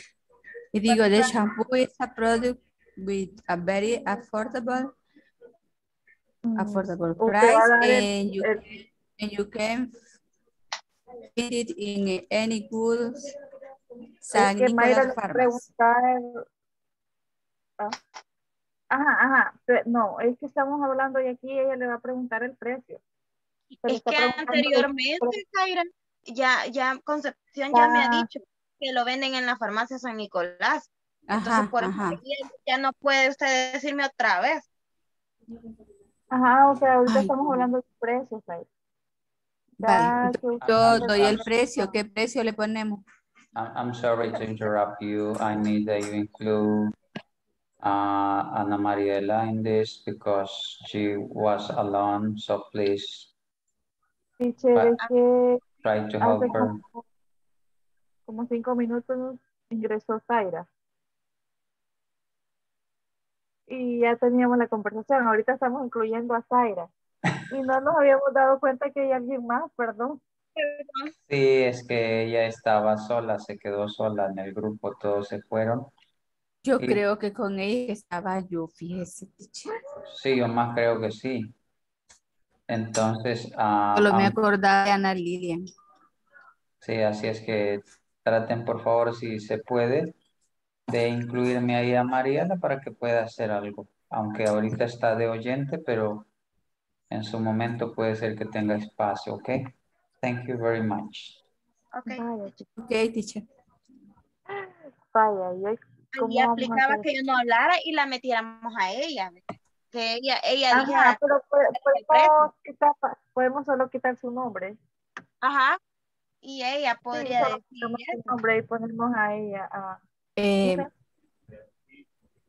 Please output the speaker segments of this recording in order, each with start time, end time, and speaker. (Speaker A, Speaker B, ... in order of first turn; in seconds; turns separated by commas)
Speaker A: 0.7-4.9, Speaker B: 6.5-8.6, Speaker A: 6.6-9.9, Speaker A: 11.3-13.3, Speaker A: 14.2-15.7, Speaker B: 14.3-16.4, Speaker B: 18.9-23.0, Speaker C: 23.8-30.9, Speaker B: 23.8-25.4, Speaker B: 27.7-28.2, Speaker A: 31.3-32.2, Speaker C: 31.4-34.6, Speaker B: 36.3-38.6, Speaker A: 37.1-37.3, Speaker B: 39.8-40.9, Speaker A: 39.8-43.0, Speaker D: 40.6-41.5, Speaker D: 43.5-46.9, Speaker D: 47.8-53.3, Speaker B: 54.4-55.6, Speaker D: 55.8-56.8, Speaker B: 56.2-57.0, Speaker B: 58.3-60.6, Speaker B: 63.7-66.9, Speaker B: 67.5-70.2, Speaker C: 70.6-71.1, Speaker D: 71.2-75.9, Speaker A: 76.7-79.7, Speaker D: 80.1-81.5, Speaker D: 82.7-84.3, Speaker A: 84.0-85.6, Speaker D: 86.8-90.1, Speaker D: 90.9-96.3, Speaker D: 97.1-101.4, Speaker C: 101.9-102.3, Speaker B: 102.1-102.7, Speaker A: 102.8-103.4, Speaker B: 104.5-107.1, Speaker C: 106.1-109.4, Speaker C: 109.9-111.2, Speaker B: 110.7-114.8, Speaker C: 111.8-112.5, Speaker C: 115.4-115.8, Speaker C: 116.4-118.4, Speaker B: 117.1-120.0, Speaker A: 120.4-120.8